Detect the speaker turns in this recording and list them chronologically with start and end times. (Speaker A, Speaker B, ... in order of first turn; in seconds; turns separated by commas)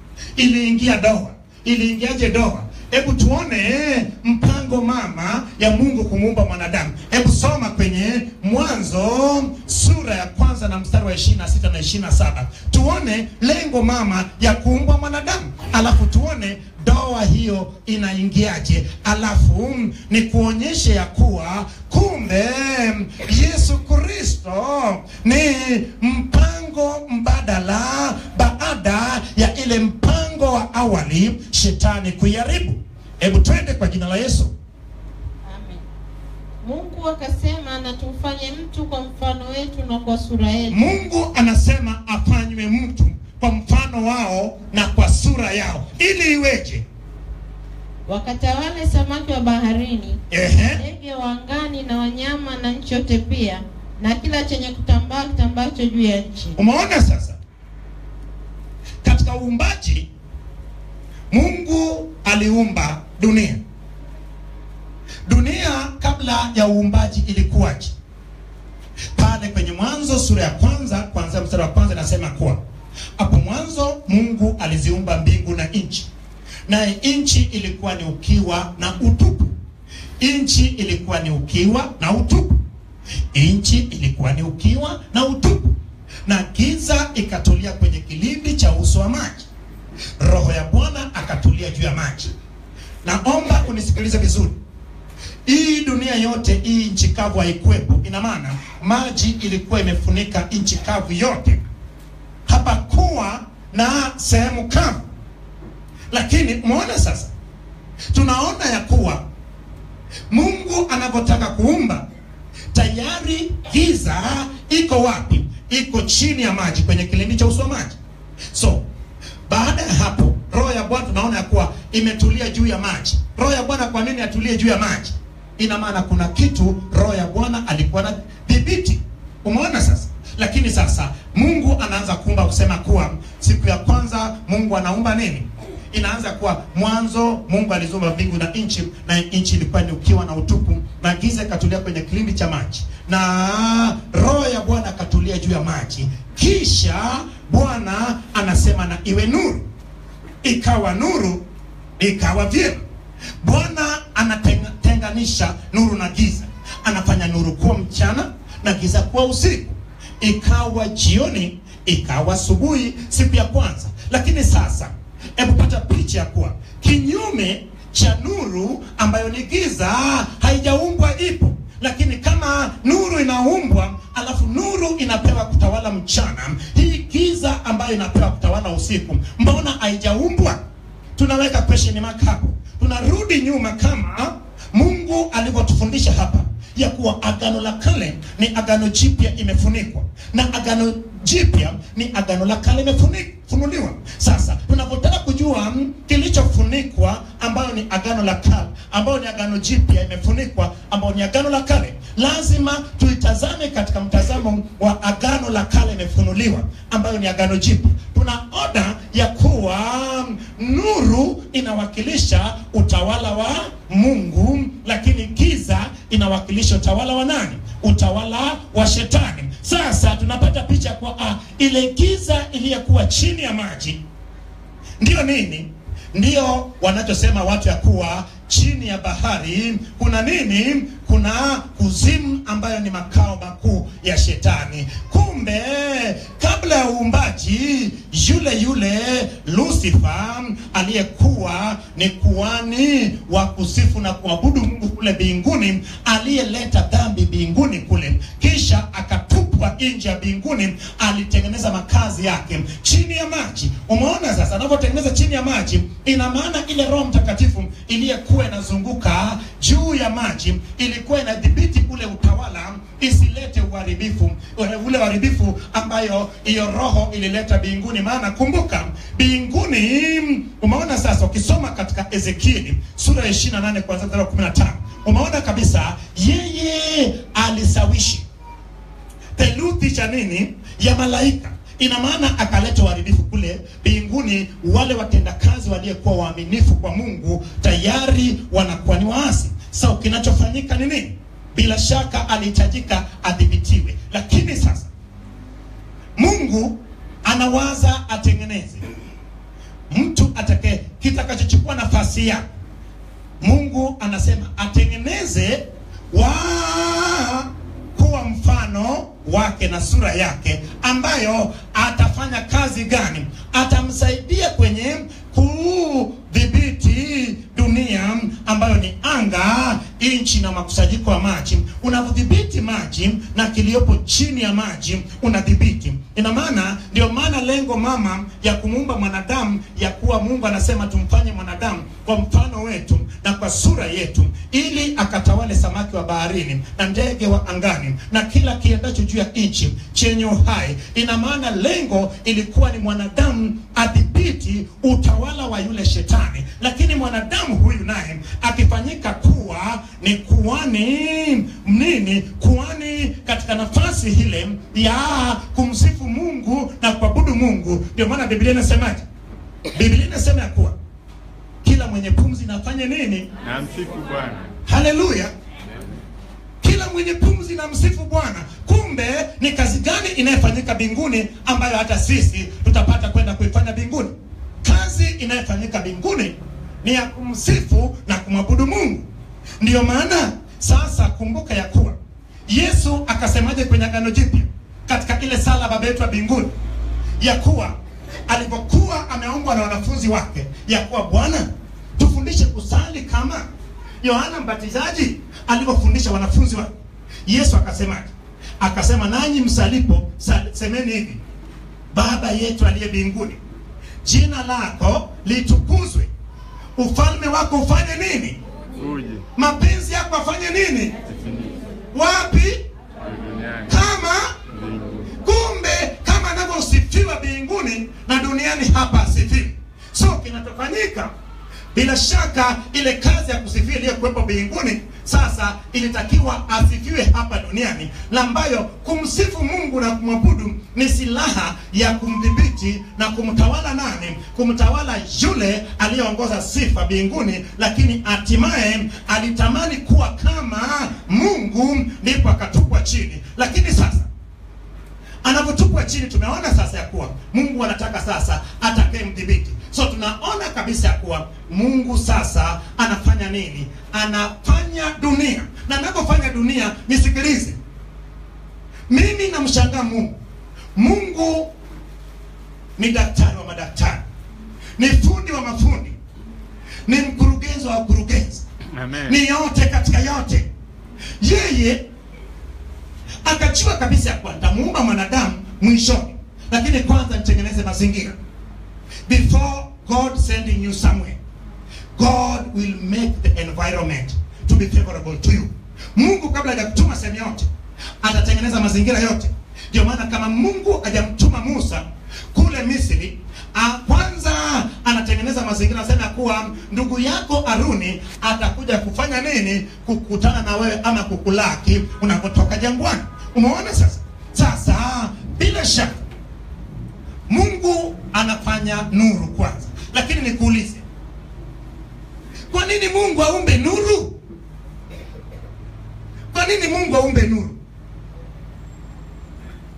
Speaker A: 0.3-34.5, Speaker B: 35.5-35.8, Speaker B: 36.6-40.8, Speaker A: 40.7-46.9, Speaker B: 48.1-50.2, Speaker A: 50.3-50.8, Speaker B: 50.8-56.6, Speaker A: 56.6-57.4, Speaker A: 59.0-60.1, Speaker A: 61.3-63.6, Speaker A: 65.2-68.0, Speaker A: 69.1-72.6, Speaker A: 73.2-76.1, Speaker A: 76.7-79.5, Speaker A: 80.2-82.6, Speaker A: 83.3-89.5, Speaker A: 90.2-92.3, Speaker A: 93.0-94.6, Speaker A: 95.5-101.6, Speaker A: 102.5-105.0, Speaker A: 106.1-107.3, Speaker A: 108.1-109.3, Speaker A: 110.3-112.1, Speaker A: 112.7-118.0, Speaker A: 118.5-118.8, Speaker A: 119.5-149.7, Speaker A: 150.4-151.4, Speaker A: 152.0-152.8, Speaker A: 153.4-180.6, Speaker A: 181.2-224.0, Speaker A: 225.0-278.2, Speaker A: 279.4-294.9, Speaker A: 296.2-298.8, Speaker A: 299.9-302.4, Speaker A: 303.4-359.1, Speaker A: 359.7-360.8, Speaker A: 361.6-363.3, Speaker C: 363.4-364.5, Speaker A: 364.6-365.3, Speaker A: 366.6-379.1, Speaker A: 379.6-382.0, Speaker A: 382.5-386.5, Speaker A: 387.2-393.5, Speaker A: 394.0-396.7, Speaker A: 397.2-401.2, Speaker A: 401.9-403.4, Speaker A: 404.0-406.1, Speaker A: 406.8-408.4, Speaker C: 408.7-409.2, Speaker A: 409.4-410.9, Speaker C: 411.1-411.6, Speaker A: 411.9-412.6, Speaker C: 413.1-413.8, Speaker A: 413.7-414.3, Speaker C: 414.5-415.1, Speaker A: 415.2-421.1, Speaker A: 421.7-444.1, Speaker A: 445.2-457.6, Speaker A: 458.9-460.1, Speaker A: 460.8-461.5, Speaker A: 462.8-464.0, Speaker A: 464.8-466.0, Speaker A: 466.9-468.4, Speaker C: 468.7-469.2, Speaker A: 469.0-470.5, Speaker A: 471.2-471.8, Speaker A: 473.2-478.2, Speaker A: 479.1-481.2, Speaker A: 481.9-487.5, Speaker A: 488.0-506.0, Speaker A: 507.3-510.8, Speaker A: 512.5-514.1, Speaker A: 516.3-517.6